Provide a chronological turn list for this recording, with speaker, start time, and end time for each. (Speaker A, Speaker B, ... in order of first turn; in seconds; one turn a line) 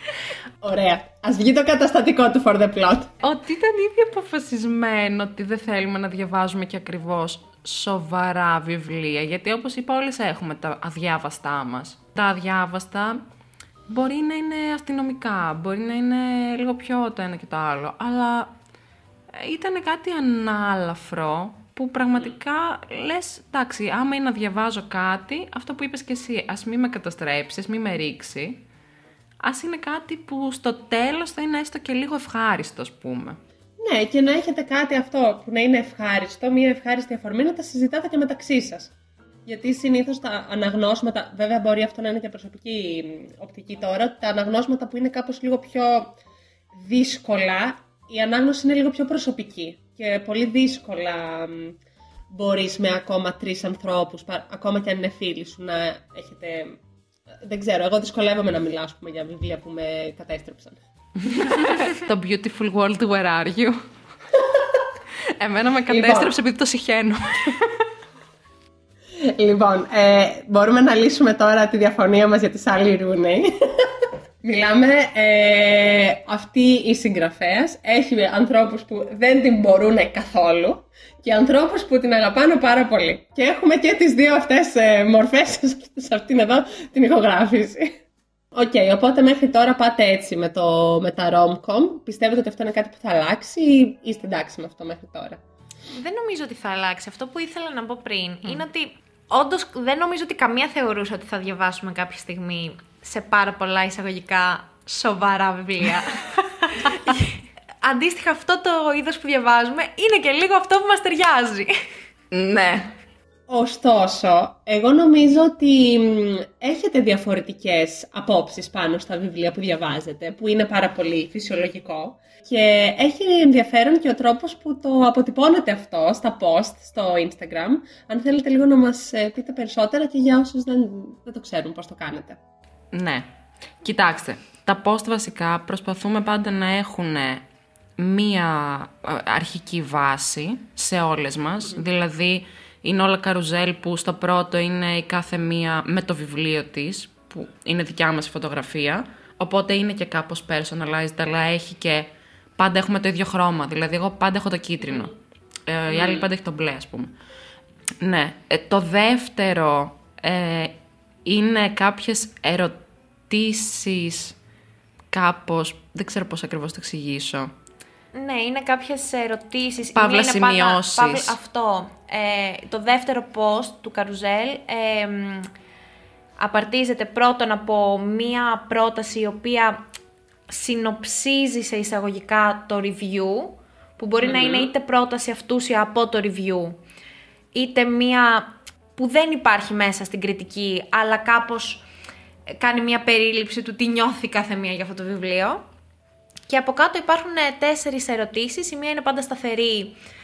Speaker A: 0.6-3.1
Speaker B: 3.2-13.2
Speaker B: 13.9-18.5
Speaker B: 19.3-28.6
Speaker B: 29.4-33.4
Speaker A: 33.8-38.9
Speaker A: 39.5-46.1
Speaker A: 46.7-51.8
Speaker A: 52.3-56.8
Speaker A: 57.4-60.8
Speaker B: 61.2-63.8
Speaker B: 65.4-67.8
Speaker A: 65.9-66.3
Speaker A: 69.2-88.0
Speaker A: 88.5-95.4
Speaker C: 95.9-111.7
Speaker B: 112.3-112.9
Speaker A: 113.5-132.4
Speaker B: 132.9-133.2
Speaker B: 133.8-137.4
Speaker B: 138.0-155.1
Speaker B: 155.7-157.1
Speaker A: 155.9-156.2
Speaker B: 158.0-160.7
Speaker B: 161.2-162.8
Speaker B: 163.3-164.3
Speaker B: 165.1-167.5
Speaker C: 168.1-175.5
Speaker B: 169.9-171.3
Speaker C: 176.4-179.8
Speaker C: 180.5-186.8
Speaker A: 184.2-184.7
Speaker C: 187.5-191.8
Speaker C: 192.6-195.6
Speaker C: 196.5-200.0